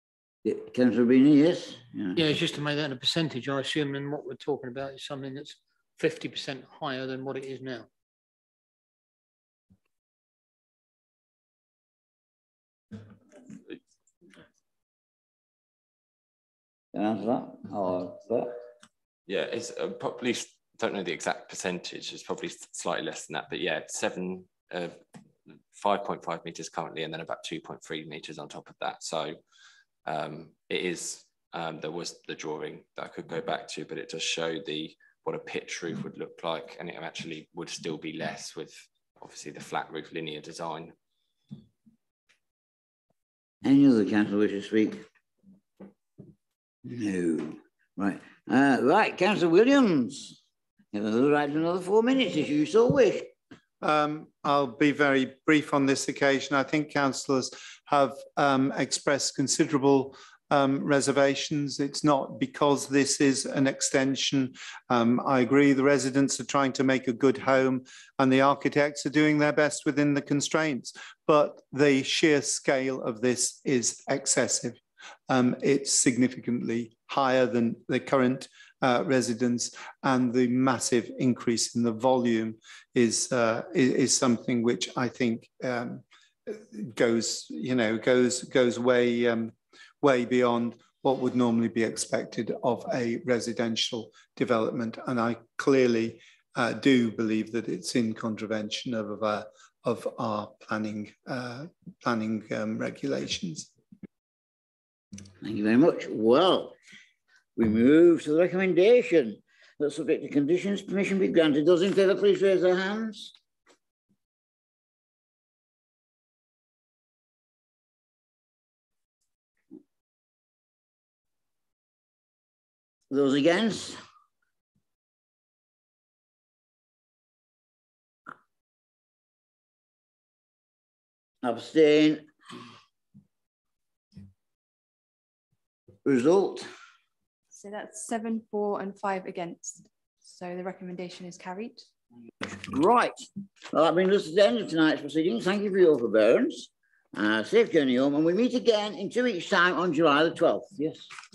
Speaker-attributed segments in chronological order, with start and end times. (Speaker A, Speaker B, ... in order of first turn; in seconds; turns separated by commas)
Speaker A: 0.4-2.2, Speaker B: 2.1-7.9, Speaker A: 16.9-18.5, Speaker C: 19.3-25.0, Speaker C: 25.7-29.4, Speaker C: 30.0-40.9, Speaker A: 43.6-45.0, Speaker A: 46.8-50.4, Speaker A: 50.9-53.3, Speaker D: 53.8-103.7, Speaker A: 105.4-106.7, Speaker A: 107.5-113.3, Speaker A: 123.1-124.0, Speaker A: 131.4-132.3, Speaker A: 136.0-136.7, Speaker E: 137.5-141.8, Speaker A: 142.5-151.1